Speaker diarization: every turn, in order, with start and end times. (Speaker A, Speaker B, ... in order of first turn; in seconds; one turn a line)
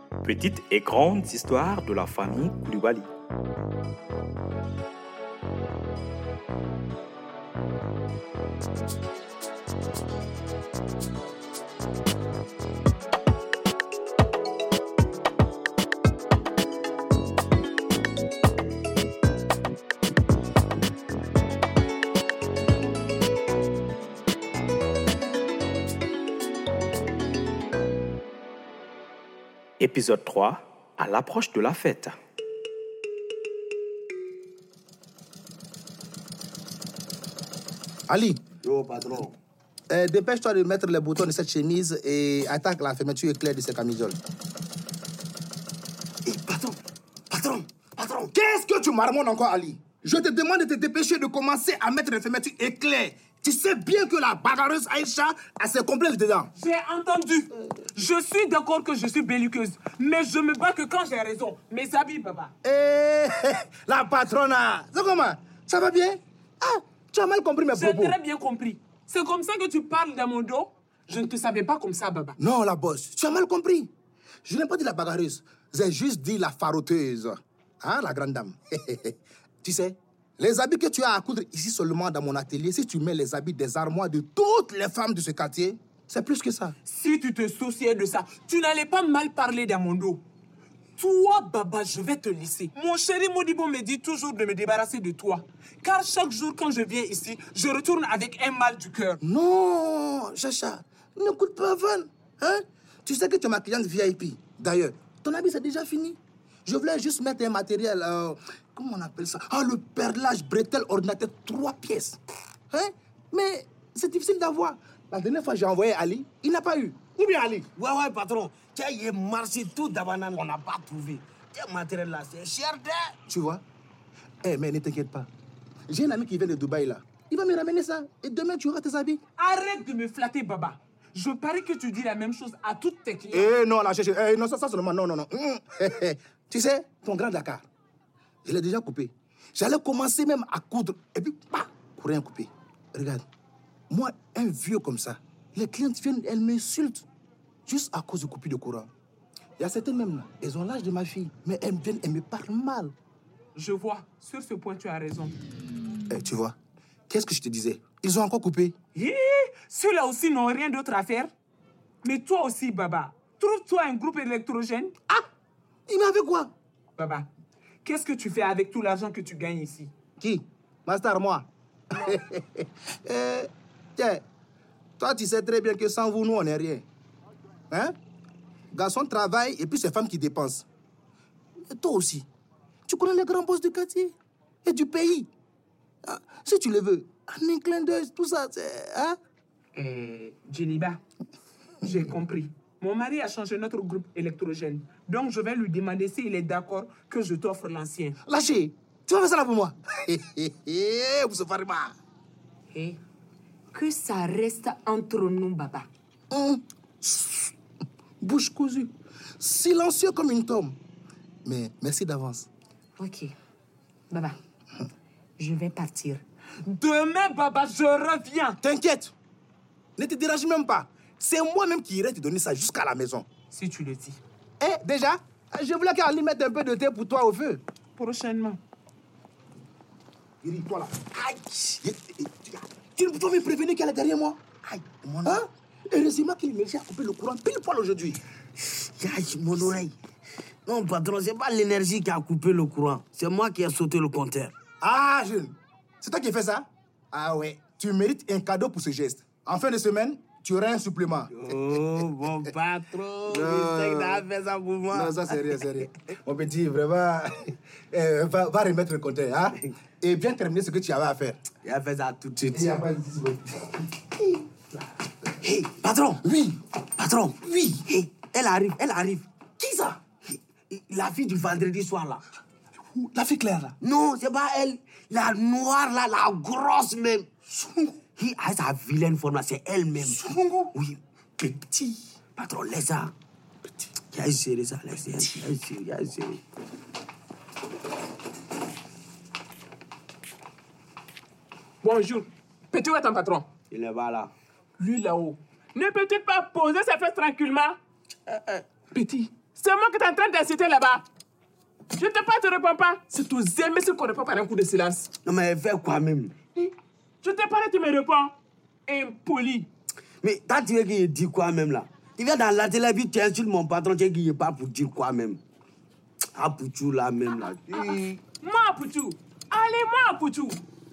Speaker A: 0.2-3.1
Speaker A: 29.8-32.2
Speaker B: 38.1-38.4
Speaker C: 38.6-39.4
Speaker B: 39.9-44.2
Speaker C: 46.3-46.8
Speaker C: 47.3-48.3
Speaker B: 48.3-56.5
Speaker D: 56.6-62.5
Speaker B: 62.6-68.2
Speaker D: 67.7-72.4
Speaker B: 72.4-73.9
Speaker B: 74.5-86.8
Speaker D: 86.9-90.2
Speaker D: 91.0-99.2
Speaker B: 99.2-112.2
Speaker B: 112.7-117.7
Speaker C: 117.8-123.2
Speaker B: 123.3-123.6
Speaker B: 124.4-125.3
Speaker B: 125.9-129.2
Speaker D: 129.4-133.5
Speaker B: 133.3-137.7
Speaker B: 138.4-143.2
Speaker B: 143.9-147.1
Speaker B: 147.7-148.9
Speaker B: 149.6-152.9
Speaker D: 153.6-155.3
Speaker B: 156.1-156.6
Speaker B: 157.1-158.8
Speaker D: 158.9-161.3
Speaker D: 162.0-164.9
Speaker B: 165.9-166.5
Speaker D: 167.0-167.3
Speaker D: 167.8-169.9
Speaker B: 170.2-174.2
Speaker B: 175.0-176.8
Speaker B: 177.7-178.0
Speaker B: 178.7-180.7
Speaker B: 181.7-182.3
Speaker B: 182.9-184.1
Speaker B: 184.7-185.3
Speaker B: 186.0-189.2
Speaker D: 189.8-191.0
Speaker D: 191.8-198.2
Speaker B: 198.2-201.9
Speaker E: 202.7-203.0
Speaker E: 203.7-205.9
Speaker B: 206.3-207.5
Speaker B: 208.2-210.8
Speaker B: 211.4-212.5
Speaker E: 213.0-213.3
Speaker E: 214.1-214.4
Speaker E: 215.4-216.2
Speaker D: 216.7-218.6
Speaker B: 218.6-219.2
Speaker B: 220.0-223.3
Speaker D: 223.5-224.2
Speaker B: 224.6-227.6
Speaker D: 228.0-228.6
Speaker B: 230.4-234.4
Speaker C: 234.7-235.3
Speaker B: 235.2-238.2
Speaker C: 238.6-239.9
Speaker C: 240.7-244.6
Speaker B: 244.8-251.3
Speaker C: 251.3-255.7
Speaker B: 253.3-254.3
Speaker B: 254.9-261.4
Speaker C: 261.6-262.8
Speaker B: 262.4-264.4
Speaker C: 265.4-266.3
Speaker B: 266.2-266.6
Speaker C: 267.0-269.3
Speaker B: 267.4-267.8
Speaker B: 269.6-270.0
Speaker C: 270.2-272.2
Speaker B: 272.8-273.8
Speaker C: 273.8-277.3
Speaker B: 277.6-277.9
Speaker C: 278.1-283.1
Speaker C: 284.1-286.4
Speaker D: 291.8-293.5
Speaker C: 293.7-294.3
Speaker D: 294.8-297.8
Speaker C: 298.3-298.6
Speaker D: 298.9-301.1
Speaker D: 302.0-305.1
Speaker C: 305.2-306.4
Speaker D: 307.2-308.3
Speaker D: 308.9-309.7
Speaker C: 310.2-315.4
Speaker C: 316.4-318.2
Speaker D: 317.9-320.6